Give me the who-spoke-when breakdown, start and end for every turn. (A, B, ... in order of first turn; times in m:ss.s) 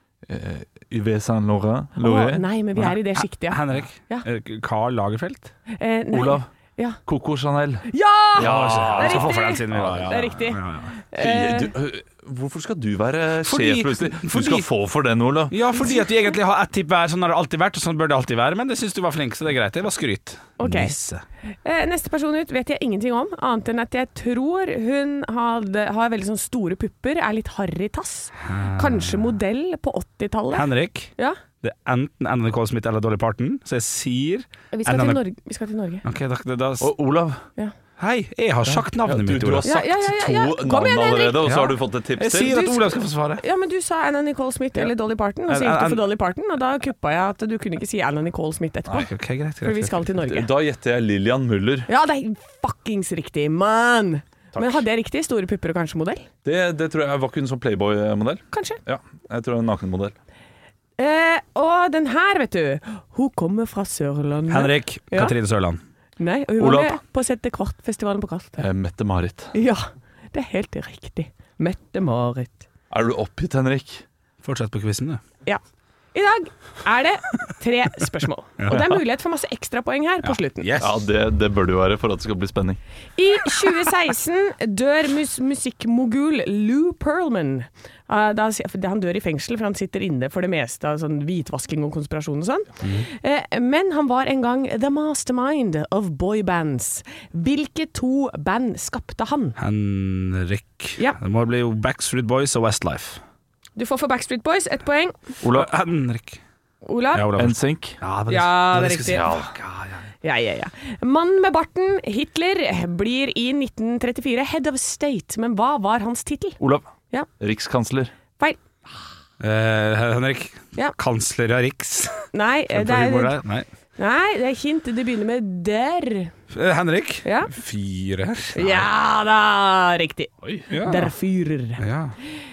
0:00.3-0:02.4 A
0:02.0-0:04.2 B
0:02.8-0:05.5 C
0:05.7-0:07.0 B
0:06.1-0:06.4 A
0:07.0-0:10.1 A
0:07.9-0:11.7 B
0:08.4-0:10.9 C
0:11.2-0:15.6 A
0:13.4-0:14.6 C
0:15.5-0:21.2 C
0:20.6-0:20.9 B
0:21.6-0:31.4 B
0:28.4-0:29.2 C
0:30.5-0:35.2 C
0:34.7-0:36.0 B
0:36.0-0:36.9 C
0:36.8-0:37.4 A
0:38.0-0:39.7 C
0:38.6-0:42.9 A
0:39.6-0:41.7 B
0:41.5-0:43.4 C
0:43.4-0:49.1 B
0:45.5-0:46.1 C
0:49.0-0:50.0 C
0:49.6-0:50.5 B
0:50.2-0:51.9 A
0:51.9-0:56.3 B
0:54.5-0:54.8 A
0:56.4-1:00.2 A
0:58.5-0:58.8 B
1:01.0-1:05.3 B
1:04.5-1:05.8 C
1:06.2-1:08.6 B
1:06.6-1:07.0 A
1:08.6-1:09.5 A
1:09.5-1:12.6 B
1:12.9-1:14.0 A
1:14.4-1:15.2 C
1:16.1-1:20.7 B
1:18.6-1:18.8 C
1:20.2-1:21.0 C
1:20.8-1:22.8 A
1:23.2-1:39.6 B
1:32.8-1:33.1 C
1:39.6-1:43.2 C
1:43.8-1:45.2 B
1:45.4-1:45.7 A
1:45.5-1:46.4 C
1:46.8-1:47.3 B
1:47.1-1:50.0 C
1:47.4-1:48.0 A
1:48.3-1:49.3 B
1:48.8-1:49.5 A
1:50.2-1:56.6 B
1:56.6-1:56.9 A
1:57.4-1:58.1 A
1:59.4-2:03.7 C
2:02.3-2:03.4 B
2:04.0-2:06.3 B
2:06.5-2:08.9 C
2:07.2-2:07.5 B
2:08.5-2:11.8 B
2:10.7-2:11.1 C
2:11.8-2:12.1 C